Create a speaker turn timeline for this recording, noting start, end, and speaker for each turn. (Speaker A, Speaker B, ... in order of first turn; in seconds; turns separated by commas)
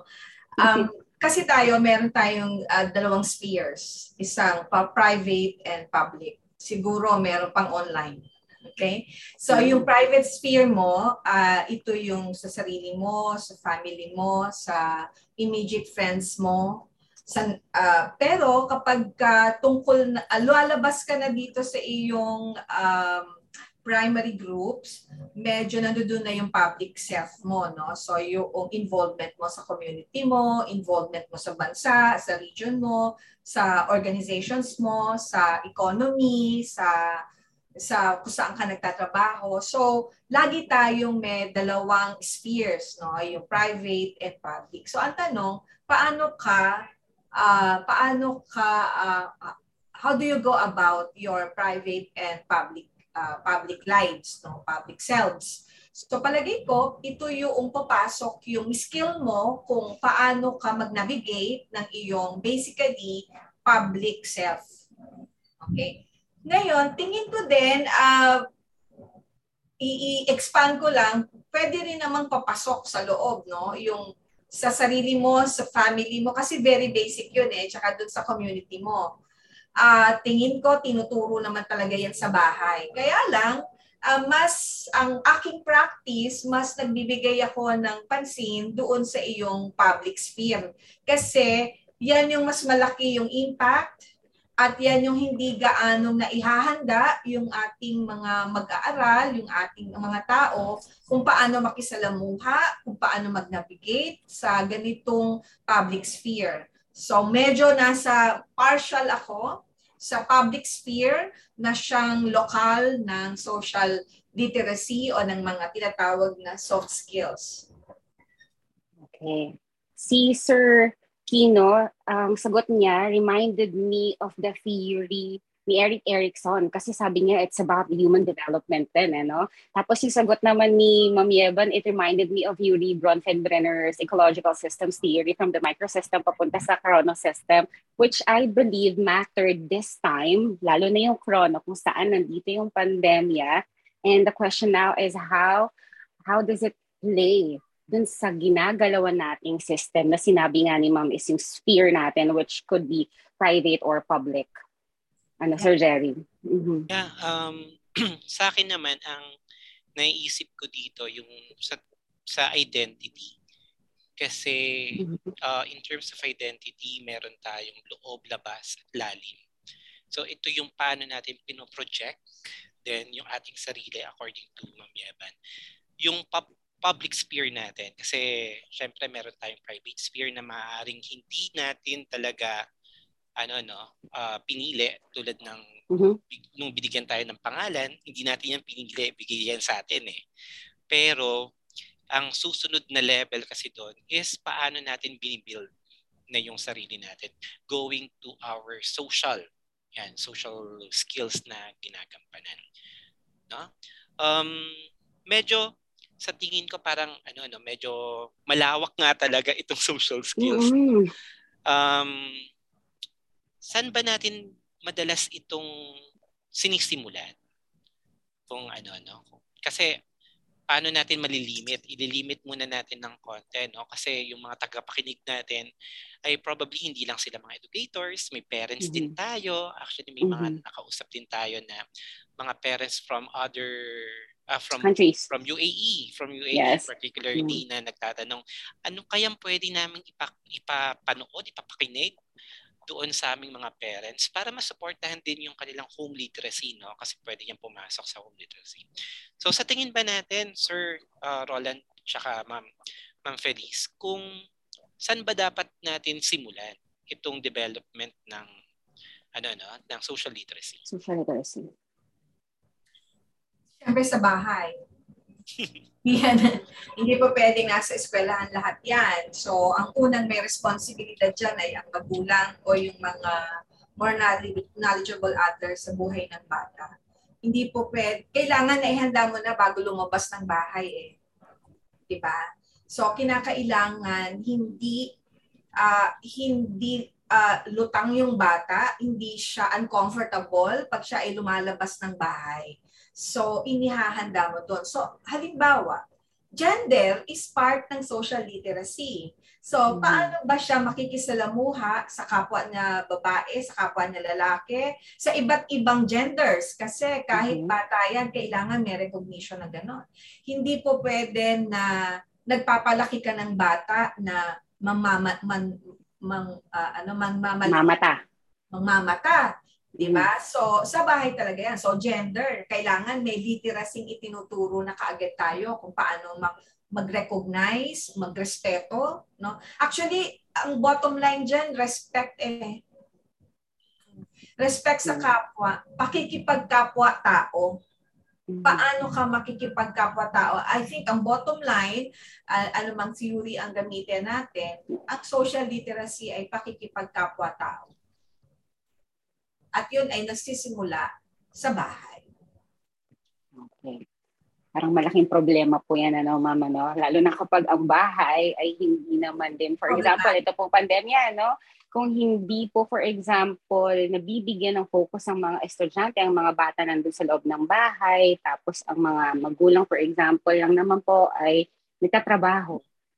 Speaker A: 0.6-14.8, Speaker B: 9.5-9.9, Speaker A: 15.4-23.3, Speaker A: 23.9-37.0, Speaker A: 37.9-46.7, Speaker A: 47.4-64.7, Speaker A: 65.6-68.4, Speaker A: 69.8-74.1, Speaker A: 74.6-79.1, Speaker A: 79.8-91.5, Speaker A: 92.0-94.0, Speaker A: 94.6-109.5, Speaker A: 110.0-117.7, Speaker B: 119.0-145.7, Speaker B: 146.3-154.5, Speaker B: 155.4-156.9, Speaker C: 156.9-159.3, Speaker C: 160.0-161.8, Speaker C: 162.3-163.3, Speaker C: 164.2-169.4, Speaker B: 165.0-165.3, Speaker C: 170.1-172.2, Speaker C: 172.8-175.3, Speaker C: 176.0-182.6, Speaker C: 183.4-185.6, Speaker B: 185.9-186.2, Speaker C: 186.3-190.2, Speaker C: 190.9-191.4, Speaker C: 192.1-195.7, Speaker C: 196.3-199.4, Speaker C: 200.0-202.6, Speaker C: 204.2-204.7, Speaker C: 205.3-205.7, Speaker C: 206.2-210.7, Speaker B: 210.4-211.1, Speaker C: 211.7-212.4, Speaker C: 213.7-215.7, Speaker C: 216.6-217.3, Speaker C: 218.5-219.9, Speaker C: 220.7-225.7, Speaker C: 226.2-231.8, Speaker B: 228.8-229.1, Speaker B: 230.2-230.6, Speaker C: 232.4-242.1, Speaker B: 234.8-235.3, Speaker B: 236.5-237.6, Speaker C: 242.9-248.9, Speaker C: 249.4-252.7, Speaker C: 253.3-254.2, Speaker C: 255.0-258.5, Speaker C: 259.4-260.8, Speaker B: 260.9-261.7, Speaker A: 263.8-264.7, Speaker A: 266.1-273.4, Speaker A: 274.0-276.9, Speaker A: 277.4-281.1, Speaker A: 282.1-282.4, Speaker A: 282.9-285.1, Speaker A: 285.8-296.0, Speaker A: 296.6-311.9, Speaker B: 299.9-300.3, Speaker B: 307.3-307.8, Speaker A: 312.5-315.7, Speaker A: 316.3-318.0, Speaker B: 317.6-318.2, Speaker A: 318.7-319.4, Speaker A: 320.0-332.8, Speaker B: 320.0-320.3, Speaker A: 334.6-337.7, Speaker B: 338.5-338.8, Speaker A: 338.6-347.9, Speaker A: 349.8-351.1, Speaker A: 351.6-352.2, Speaker B: 353.6-354.0, Speaker B: 354.8-372.8, Speaker A: 359.9-360.4